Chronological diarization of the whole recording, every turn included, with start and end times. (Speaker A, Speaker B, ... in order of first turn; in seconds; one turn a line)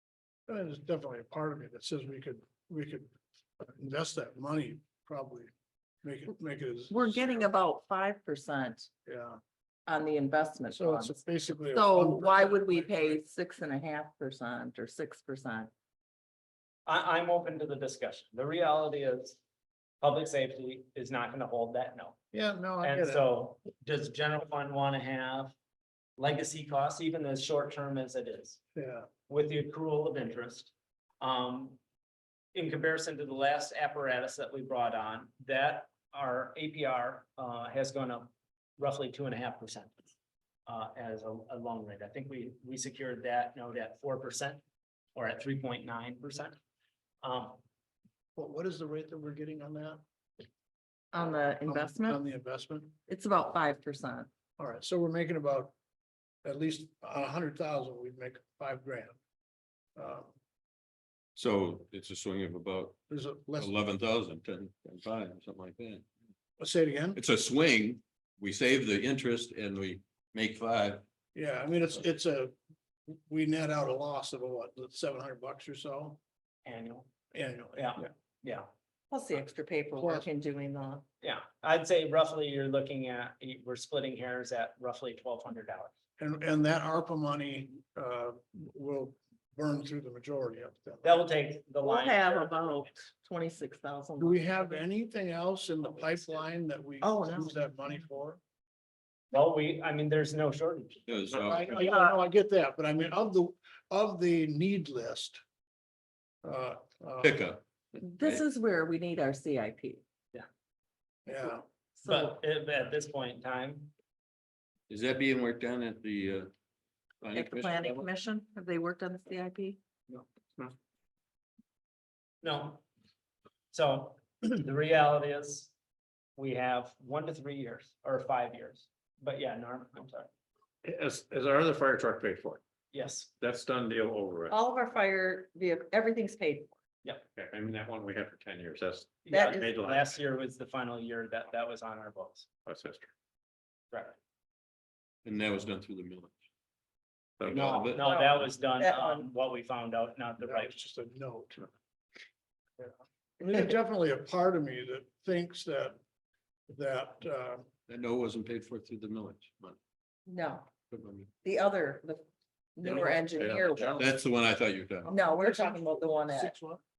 Speaker A: 0.5-5.5
Speaker A: 6.0-7.4
Speaker B: 6.9-8.9
Speaker A: 9.1-9.4
Speaker B: 9.9-15.7
Speaker A: 10.7-13.2
Speaker C: 16.9-19.4
Speaker C: 20.0-22.2
Speaker A: 22.3-23.3
Speaker C: 22.8-25.5
Speaker C: 26.2-28.6
Speaker A: 28.8-29.1
Speaker C: 29.3-31.8
Speaker C: 32.5-39.9
Speaker C: 40.6-44.6
Speaker C: 45.1-46.6
Speaker C: 47.2-47.6
Speaker A: 48.4-50.0
Speaker B: 51.1-52.2
Speaker A: 51.6-53.0
Speaker B: 53.1-54.3
Speaker A: 54.6-55.7
Speaker A: 56.4-59.2
Speaker A: 60.0-60.3
Speaker D: 61.3-63.0
Speaker A: 63.1-63.7
Speaker D: 63.6-66.0
Speaker A: 66.6-67.2
Speaker D: 67.1-71.0
Speaker A: 71.3-72.5
Speaker A: 73.1-76.2
Speaker C: 76.6-77.1
Speaker A: 77.3-78.1
Speaker C: 77.7-78.7
Speaker B: 79.1-81.0
Speaker A: 80.0-80.3
Speaker C: 81.2-85.9
Speaker A: 86.2-91.2
Speaker C: 91.0-93.0
Speaker B: 91.8-94.8
Speaker A: 94.2-98.4
Speaker B: 97.0-97.6
Speaker C: 99.3-101.0
Speaker D: 101.1-101.7
Speaker A: 101.4-105.4
Speaker B: 101.8-102.1
Speaker A: 106.4-107.4
Speaker D: 107.2-107.6
Speaker B: 108.0-110.0
Speaker A: 111.2-111.7
Speaker B: 112.0-112.3
Speaker C: 112.0-113.9
Speaker D: 114.9-116.5
Speaker D: 117.2-118.1
Speaker B: 117.3-119.8
Speaker C: 122.4-122.8
Speaker C: 123.7-125.7
Speaker C: 126.4-130.3
Speaker E: 130.8-132.6
Speaker C: 132.9-133.3
Speaker E: 133.4-134.5
Speaker B: 134.5-136.7
Speaker E: 137.3-140.1
Speaker C: 139.2-142.5
Speaker B: 139.3-139.7
Speaker E: 142.7-143.1
Speaker C: 143.9-144.2
Speaker D: 145.2-146.3
Speaker E: 147.4-147.9
Speaker D: 147.4-148.0
Speaker C: 147.5-150.8
Speaker B: 148.0-149.2
Speaker A: 150.4-151.6
Speaker A: 153.4-156.0
Speaker A: 156.7-157.7
Speaker D: 157.9-159.8
Speaker B: 160.3-160.7
Speaker D: 160.9-161.3
Speaker B: 161.4-162.2
Speaker B: 162.8-164.0
Speaker D: 162.8-165.2
Speaker E: 162.9-164.1
Speaker B: 165.1-166.6
Speaker A: 165.4-166.8